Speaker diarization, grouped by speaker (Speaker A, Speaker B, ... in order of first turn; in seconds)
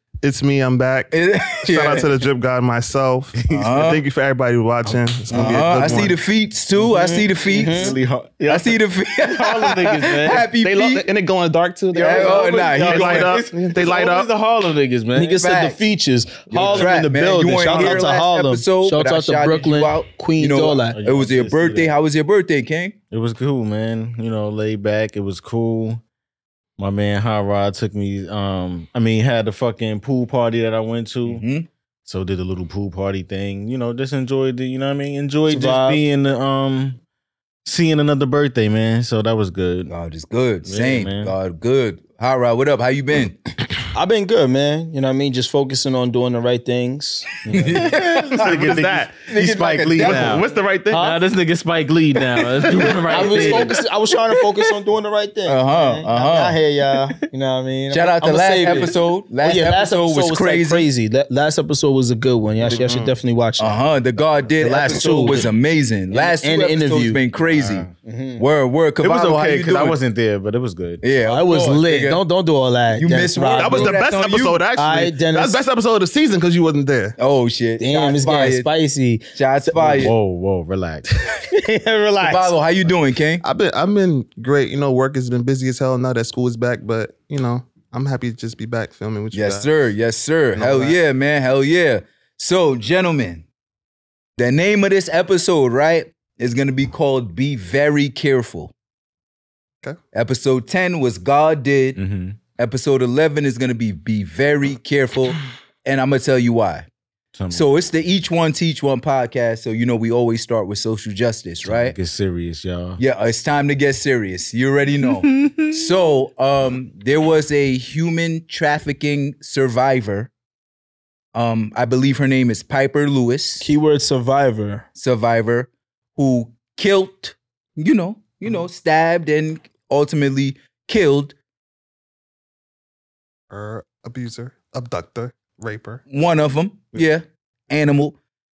Speaker A: 0.2-6.2, 10.5-14.3, 17.6-18.1, 48.4-49.3, 50.0-51.2, 52.6-53.7, 62.7-63.2, 73.6-77.2, 83.4-89.8, 90.6-91.0, 133.5-136.0
Speaker B: 1.1-2.1, 3.5-4.0, 5.3-8.0, 8.5-11.1, 12.0-13.3, 15.3-15.8, 16.5-22.9, 31.3-31.7, 39.9-43.4, 47.5-50.4, 55.5-56.6, 57.9-60.9, 63.6-70.0, 71.0-72.2, 72.9-74.6, 77.2-78.7, 79.3-80.2, 82.2-83.4, 89.3-93.5, 94.4-98.7, 100.1-102.0, 102.6-106.9, 107.5-112.0, 113.0-120.3, 121.3-123.7, 125.0-131.3, 136.1-138.2
Speaker C: 3.5-3.7, 4.8-6.0, 6.8-10.5, 12.0-15.4, 20.9-21.9, 23.1-26.0, 26.8-31.4, 32.0-37.0, 37.6-39.9, 40.6-41.4, 47.5-53.8, 67.4-67.9, 69.0-71.0, 80.0-81.1, 102.0-102.4, 107.3-107.7, 111.7-113.0, 115.1-115.9
Speaker D: 7.5-8.0, 15.2-21.0, 35.5-36.0, 43.9-47.4, 50.9-51.2, 53.1-63.8, 64.6-65.5, 66.1-67.2, 68.0-68.5, 71.2-74.0, 74.8-75.6, 77.8-80.1, 81.4-82.5, 123.6-124.8